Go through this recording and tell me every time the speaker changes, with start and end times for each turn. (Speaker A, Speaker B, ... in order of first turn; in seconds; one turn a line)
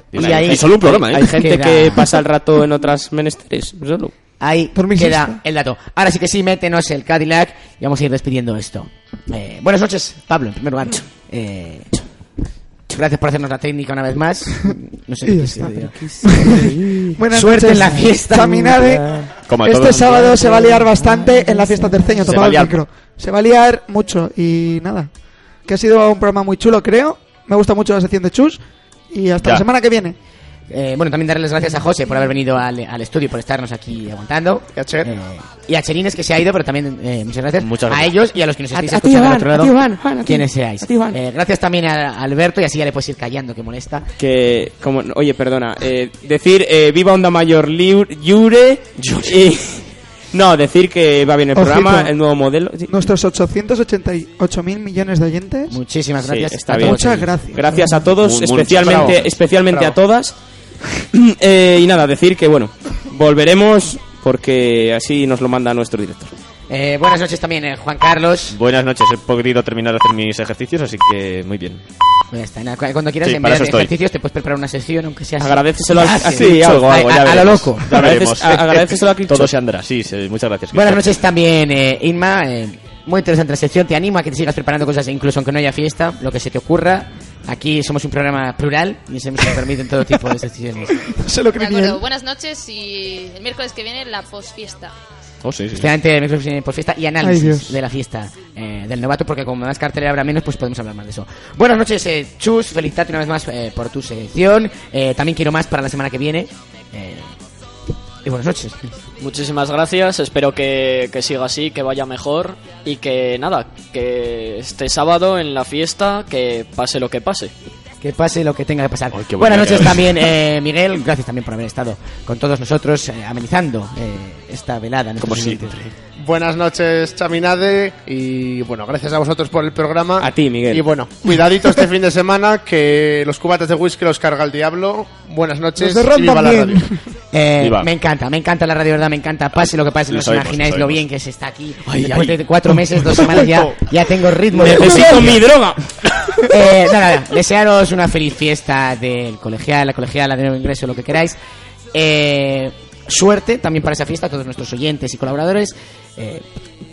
Speaker A: 0.1-1.5
Speaker B: 0.1-2.2
Speaker C: 0.9-4.1
Speaker B: 4.4-11.9
Speaker D: 4.7-5.4
Speaker B: 12.9-16.4
Speaker D: 15.2-25.1
Speaker C: 16.3-17.0
Speaker B: 17.3-19.0
Speaker A: 19.5-20.6
Speaker A: 22.2-22.8
Speaker D: 25.6-30.2
Speaker B: 30.7-44.1
Speaker E: 34.8-35.1
Speaker A: 37.6-38.1
Speaker C: 38.7-41.2
Speaker C: 44.2-49.8
Speaker A: 49.0-49.4
Speaker C: 50.3-53.0
Speaker D: 51.5-52.1
Speaker D: 52.9-55.8
Speaker B: 55.7-57.3
Speaker C: 56.2-60.3
Speaker D: 56.7-58.1
Speaker A: 58.2-59.4
Speaker E: 58.8-59.1
Speaker E: 59.7-60.0
Speaker C: 61.1-66.3
Speaker B: 66.7-68.6
Speaker A: 68.5-71.8
Speaker B: 72.3-77.9
Speaker A: 73.2-73.9
Speaker C: 75.4-77.2
Speaker A: 76.3-81.1
Speaker C: 77.8-79.5
Speaker B: 80.7-91.0
Speaker D: 91.0-92.0
Speaker F: 91.5-94.9
Speaker A: 95.4-95.9
Speaker B: 95.7-107.3
Speaker D: 97.2-97.8
Speaker B: 108.2-109.0
Speaker G: 109.2-117.5
Speaker B: 118.0-125.8
Speaker A: 119.1-120.3
Speaker A: 125.2-125.9
Speaker E: 126.2-136.9
Speaker C: 130.2-130.9
Speaker D: 131.3-131.8
Speaker D: 135.8-137.0
Speaker B: 137.3-145.4
Speaker A: 137.6-137.9
Speaker A: 140.1-141.0
Speaker A: 141.8-143.7
Speaker C: 144.5-145.8
Speaker B: 146.5-151.4
Speaker B: 151.9-156.4